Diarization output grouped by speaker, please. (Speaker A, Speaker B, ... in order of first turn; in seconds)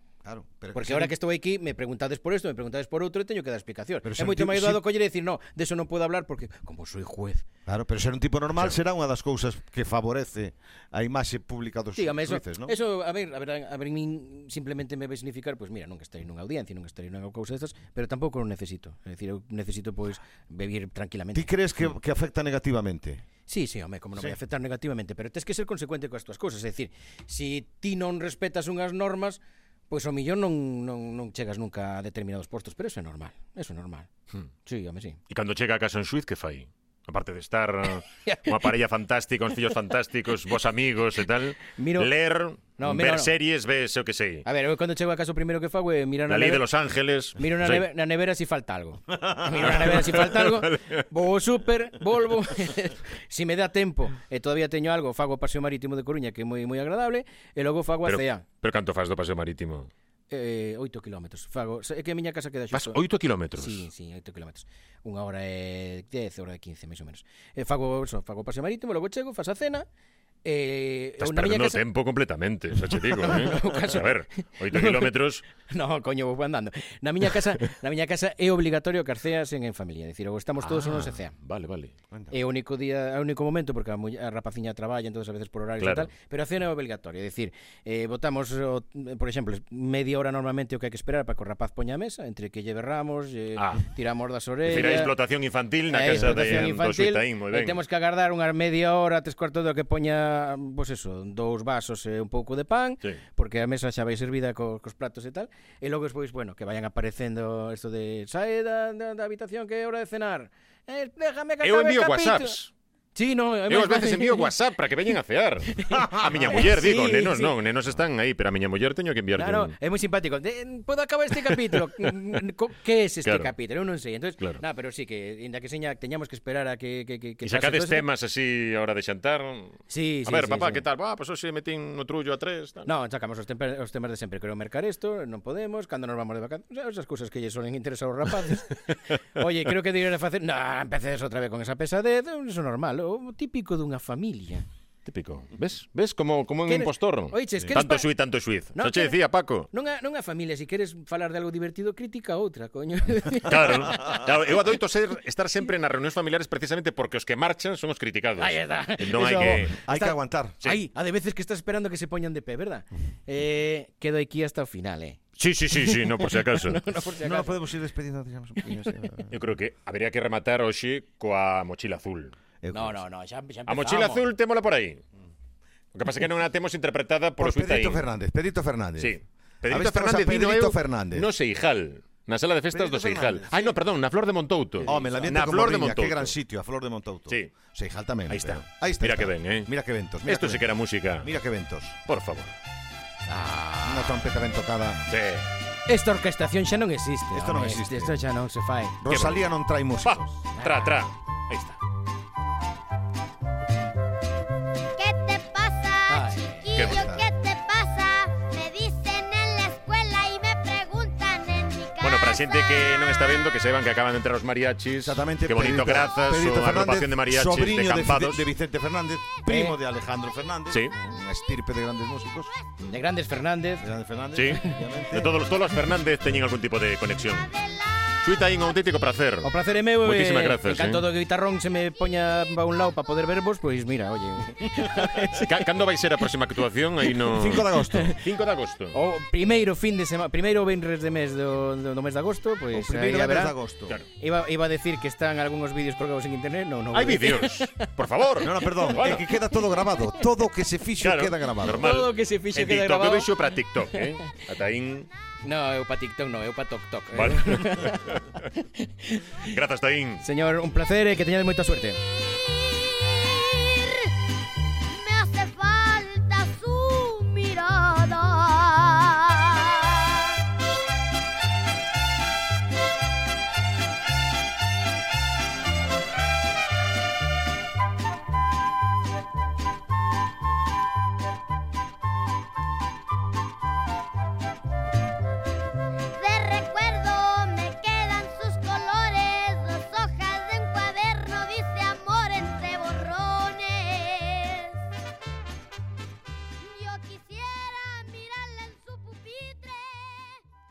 Speaker A: 0.2-1.1, 4.0-4.8, 7.7-12.7, 21.3-23.2, 49.1-49.7, 159.7-160.6, 167.2-169.3, 172.6-173.0, 177.4-179.2, 179.7-181.3, 182.7-183.8, 184.8-190.6, 191.2-192.0, 193.8-195.0, 197.3-198.2, 199.0-200.2, 206.8-207.2, 215.0-222.5, 223.8-225.3, 237.3-238.2, 242.7-244.0, 248.4-251.9
Speaker B: 0.7-7.4, 11.9-21.5, 23.5-34.1, 34.6-35.2, 38.2-38.5, 41.8-42.1, 42.8-43.3, 44.4-46.6, 47.4-58.4, 60.3-63.0, 63.5-69.8, 70.4-71.8, 73.1-74.1, 74.7-81.3, 82.3-95.1, 95.9-112.6, 113.1-114.5, 115.7-117.5, 119.3-128.1, 129.9-130.8, 132.8-144.7, 146.7-148.1, 148.7-149.2, 149.7-154.3, 158.4-167.6, 172.7-174.2, 193.3-194.3, 195.9-199.0, 200.5-201.0, 206.1-206.7, 219.4-219.8, 222.8-223.9, 229.4-235.7, 237.1-238.0, 238.9-243.6, 244.1-247.9, 251.8-253.3, 253.9-254.2, 255.4-259.5, 260.2-262.0
Speaker C: 35.3-44.5, 46.3-47.8, 49.6-51.0, 58.0-59.9, 62.7-63.9, 71.2-75.4, 80.6-81.9, 85.8-86.1, 93.6-93.8, 94.6-97.8, 111.6-112.7, 113.7-119.7, 121.7-122.1, 123.2-123.5, 127.4-132.9, 145.0-149.7, 153.4-159.8, 165.4-166.8, 169.3-172.3, 173.7-175.0, 175.9-178.0, 179.0-186.3, 188.3-189.7, 190.2-191.3, 192.1-192.5, 195.1-195.5, 199.1-199.5, 200.0-201.7, 206.8-207.1, 212.0-218.4, 220.7-221.0, 224.3-227.6, 228.2-229.5, 230.0-231.1, 235.3-238.9, 246.9-249.2, 251.0-255.1, 257.1-258.4, 259.4-260.2
Speaker D: 205.0-213.5, 222.4-222.9, 227.1-229.0, 262.3-264.1, 264.9-270.3, 286.1-294.8, 296.6-300.4